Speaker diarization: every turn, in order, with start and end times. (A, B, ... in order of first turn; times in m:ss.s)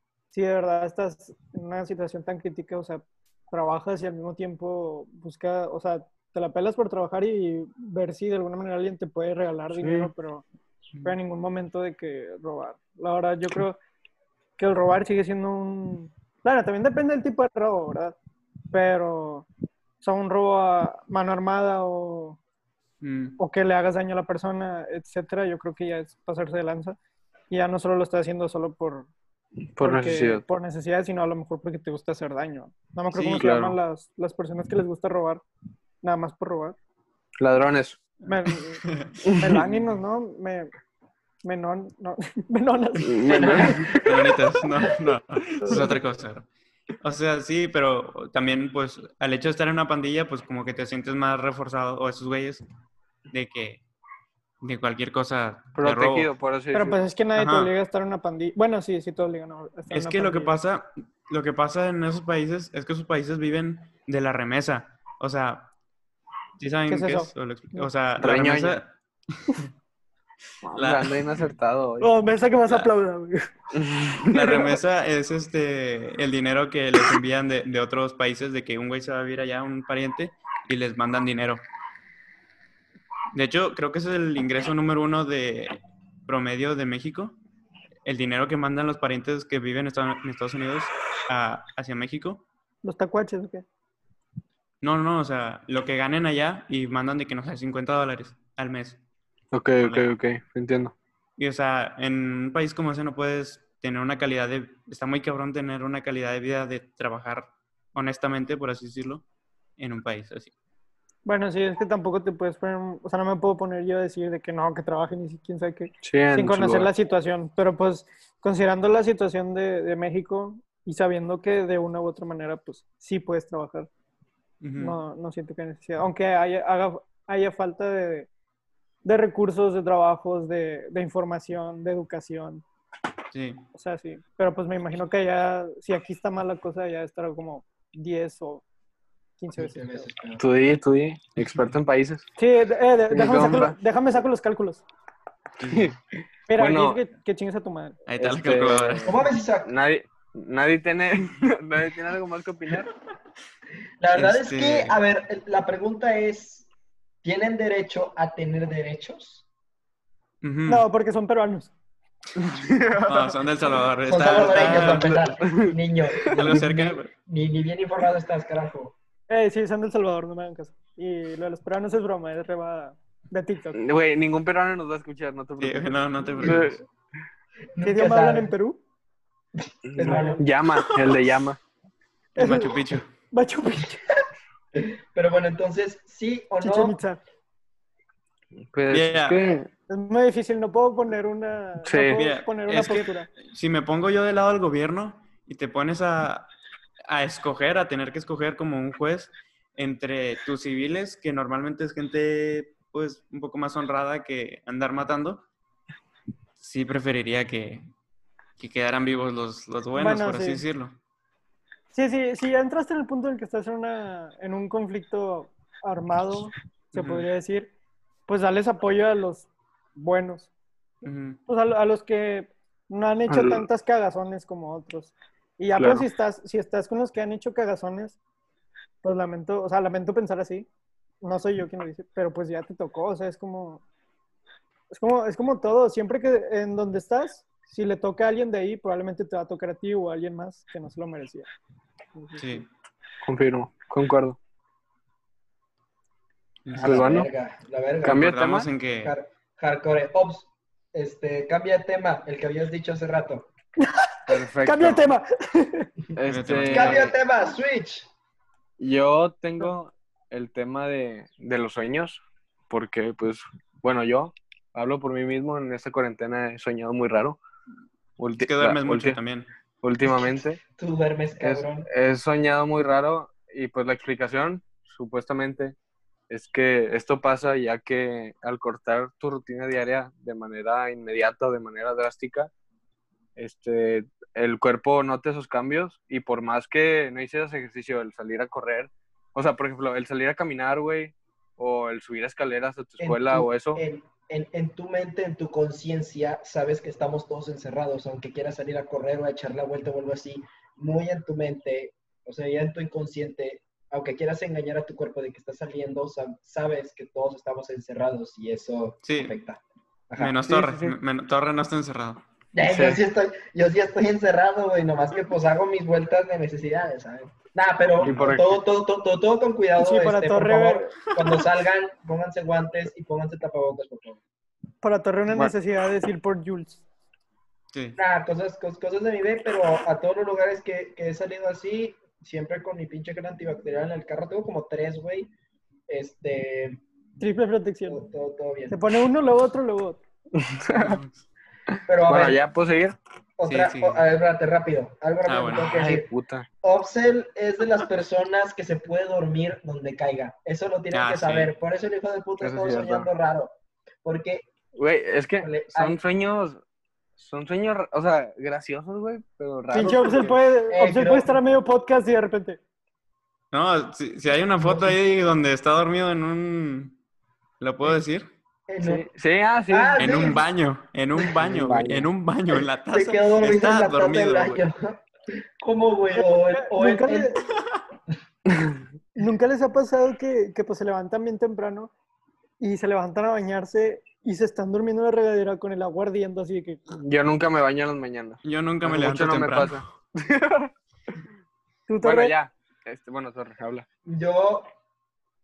0:00.3-0:10.4 A
0:09.7-0:10.1 B
0:11.0-0:13.8 A
0:14.6-0:18.2 A
0:18.7-0:19.5 A
0:20.0-0:22.4 A
0:23.0-0:23.4 C
0:23.4-0:27.0 A
0:27.5-0:29.1 A
0:29.8-0:30.4 B
0:29.8-0:35.4 A
0:33.3-0:33.8 B
0:36.0-0:36.8 A
0:37.4-0:38.0 B
0:38.2-0:38.8 A
0:38.8-0:39.2 C
0:39.2-0:39.6 B
0:39.4-0:40.7 A
0:41.4-0:44.1 A
0:43.0-0:44.0 B
0:44.0-0:46.5 C
0:45.6-0:45.9 A
0:47.0-0:52.6 C
0:53.3-0:53.8 C
0:54.6-0:56.3 C
0:55.8-0:57.0 B
0:56.7-1:00.6 A
0:57.4-0:57.7 C
0:59.9-1:05.7 C
1:06.6-1:08.9 C
1:06.9-1:07.9 A
1:08.2-1:08.8 B
1:10.6-1:12.1 B
1:10.7-1:11.4 C
1:12.0-1:13.5 A
1:13.7-1:14.7 B
1:14.3-1:21.6 C
1:23.3-1:27.4 C
1:28.0-1:32.4 C
1:32.8-1:33.6 A
1:34.8-1:39.0 C
1:39.5-1:40.9 B
1:39.8-1:40.1 C
1:41.4-1:49.2 C
1:49.8-1:50.5 C
1:51.2-2:03.9 A
1:56.0-1:56.9 B
2:04.6-2:05.0 C
2:04.8-2:08.3 A
2:09.0-2:12.6 A
2:13.3-2:13.6 C
2:13.7-2:18.6 A
2:19.4-2:20.1 A
2:19.6-2:20.4 D
2:20.4-2:22.3 B
2:22.4-2:24.8 A
2:23.1-2:23.8 B
2:25.6-2:25.9 C
2:25.6-2:26.0 B
2:26.5-2:28.0 A
2:26.6-2:27.0 B
2:28.1-2:29.3 C
2:28.2-2:32.9 B
2:29.0-2:29.7 D
2:34.0-2:36.7 D
2:34.1-2:35.0 C
2:37.2-2:39.4 D
2:40.4-2:40.8 C
2:40.7-2:41.7 A
2:42.4-2:43.4 B
2:43.1-2:45.3 C
2:44.0-2:48.9 D
2:44.6-2:46.6 B
2:46.2-2:47.1 C
2:49.3-2:53.8 A
2:53.7-2:56.8 B
2:55.6-2:56.8 C
2:57.7-2:58.5 D
2:57.8-2:58.8 A
2:59.6-3:00.4 D
2:59.9-3:01.6 B
3:00.0-3:00.4 A
3:02.4-3:03.1 C
3:02.4-3:04.1 A
3:04.7-3:07.0 D
3:06.6-3:07.2 A
3:08.5-3:09.7 B
3:08.9-3:09.6 C
3:09.9-3:13.3 A
3:11.8-3:12.2 B
3:12.1-3:16.5 C
3:17.1-3:25.4 C
3:26.6-3:27.9 C
3:28.6-3:31.0 C
3:29.9-3:30.6 A
3:31.9-3:37.7 A
3:36.9-3:37.3 C
3:38.3-3:40.5 A
3:41.0-3:41.4 C
3:41.5-3:48.2 A
3:43.3-3:43.6 B
3:45.8-3:46.0 B
3:49.0-3:50.7 A
3:51.2-3:53.8 A
3:54.9-4:01.5 A
4:02.2-4:02.6 A
4:02.4-4:02.6 C
4:03.2-4:04.4 B
4:06.6-4:07.2 C
4:06.7-4:08.3 D
4:06.8-4:07.3 B
4:08.0-4:08.7 B
4:08.0-4:09.1 C
4:09.0-4:13.5 D
4:13.8-4:15.9 A
4:14.3-4:15.1 B
4:16.2-4:17.1 B
4:16.3-4:17.1 C
4:16.6-4:18.1 D
4:18.8-4:27.4 B
4:28.2-4:29.2 B
4:28.4-4:29.5 C
4:29.8-4:30.6 B
4:30.8-4:31.9 D
4:31.4-4:35.8 B
4:36.3-4:42.5 B
4:43.4-4:53.8 B
4:53.0-5:10.3 D
5:09.0-5:09.3 C
5:10.2-5:12.2 C
5:10.4-5:11.0 B
5:12.5-5:24.2 D
5:12.6-5:13.0 B
5:18.0-5:18.4 C
5:18.0-5:18.6 B
5:19.8-5:21.0 A
5:24.8-5:26.8 A
5:27.7-5:28.0 C
5:28.0-5:35.3 D
5:35.9-5:36.8 D
5:37.2-5:38.0 A
5:37.9-5:38.8 D
5:38.7-5:40.0 A
5:40.3-5:41.0 B
5:40.7-5:41.2 C
5:41.7-5:43.0 B
5:41.9-5:42.4 D
5:43.4-5:46.1 D
5:43.5-5:44.0 C
5:45.2-5:45.8 C
5:45.6-5:46.5 B
5:46.6-5:54.5 D
5:50.9-5:51.5 C
5:52.4-5:53.1 B
5:54.7-5:56.6 B
5:55.4-5:56.0 D
5:57.2-6:00.4 B
5:59.7-6:02.6 A
6:00.7-6:01.4 D
6:03.5-6:07.0 C
6:04.6-6:05.0 D
6:07.6-6:08.3 C
6:08.7-6:09.0 D
6:08.8-6:10.3 B
6:09.7-6:10.4 D
6:10.0-6:14.6 C
6:11.3-6:12.1 B
6:12.5-6:15.0 D
6:15.6-6:17.4 D
6:16.1-6:17.4 A
6:18.5-6:18.8 B
6:19.2-6:21.9 A
6:22.6-6:26.8 A
6:26.9-6:30.7 B
6:28.4-6:29.9 C
6:31.9-6:32.3 A
6:32.0-6:33.8 B
6:34.0-6:34.7 D